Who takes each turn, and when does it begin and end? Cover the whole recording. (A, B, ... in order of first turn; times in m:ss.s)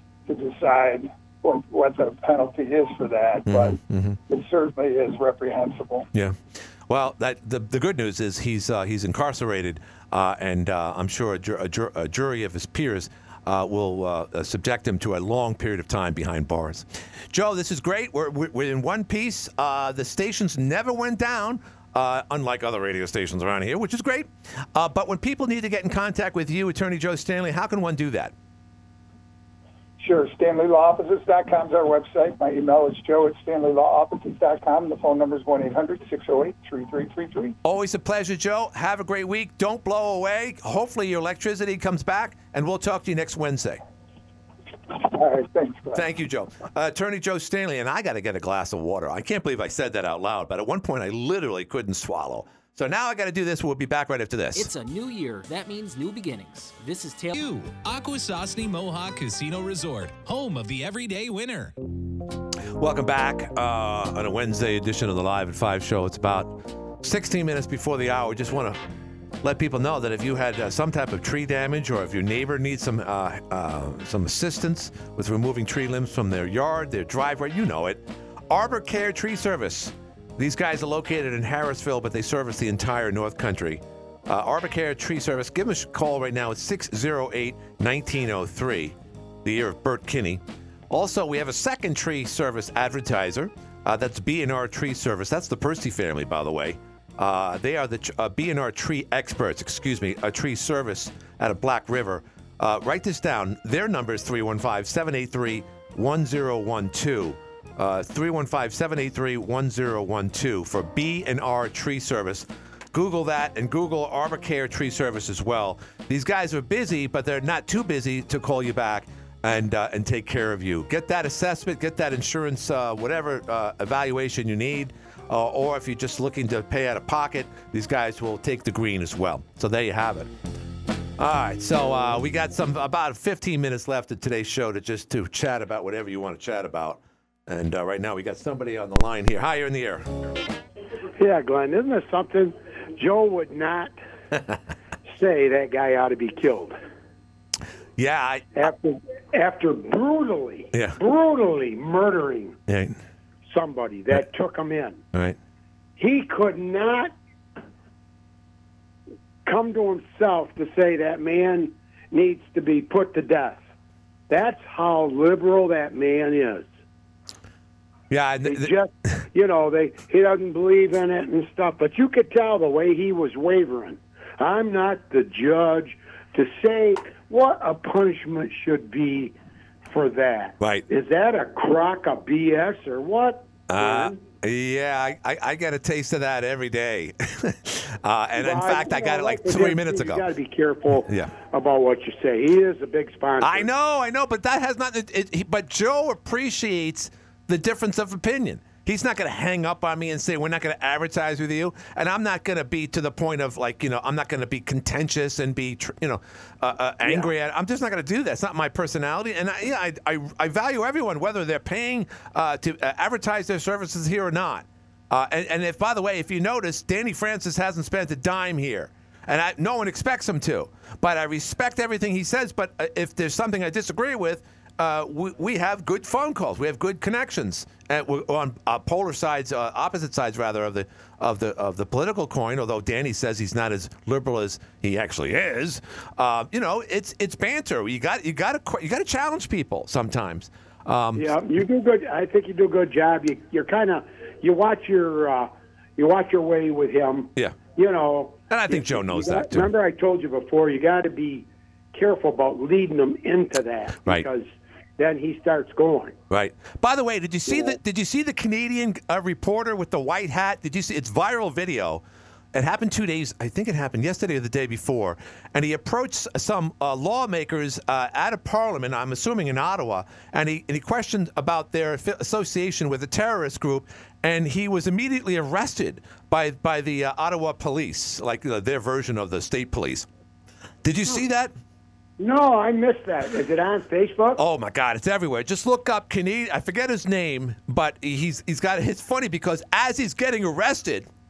0:00.3-0:06.1 A
0:03.5-0:04.2 B
0:06.1-0:28.3 B
0:30.0-0:37.6 A
0:37.6-0:43.8 B
0:44.9-0:46.0 A
0:45.9-0:54.7 B
0:54.5-0:57.3 C
0:57.3-1:01.7 D
1:02.8-1:08.8 B
1:09.4-2:10.3 B
2:11.2-2:20.1 B
2:21.2-2:24.0 E
2:25.0-2:26.8 E
2:28.0-2:28.7 B
2:28.6-2:32.6 E
2:30.7-2:31.0 B
2:32.7-2:33.0 B
2:33.5-2:35.0 E
2:36.0-2:37.1 E
2:39.4-2:43.6 E
2:44.3-2:46.7 E
2:48.1-2:48.7 B
2:48.4-2:59.3 E
2:59.8-3:04.2 E
3:00.6-3:00.8 B
3:03.7-3:10.2 B
3:08.4-3:13.7 E
3:10.9-3:11.3 B
3:13.4-4:01.4 B
4:01.2-4:16.2 E
4:08.5-4:09.7 B
4:16.3-4:40.1 B
4:17.5-4:17.7 E
4:40.8-4:41.5 B
4:42.2-4:44.4 E
4:44.4-4:51.1 B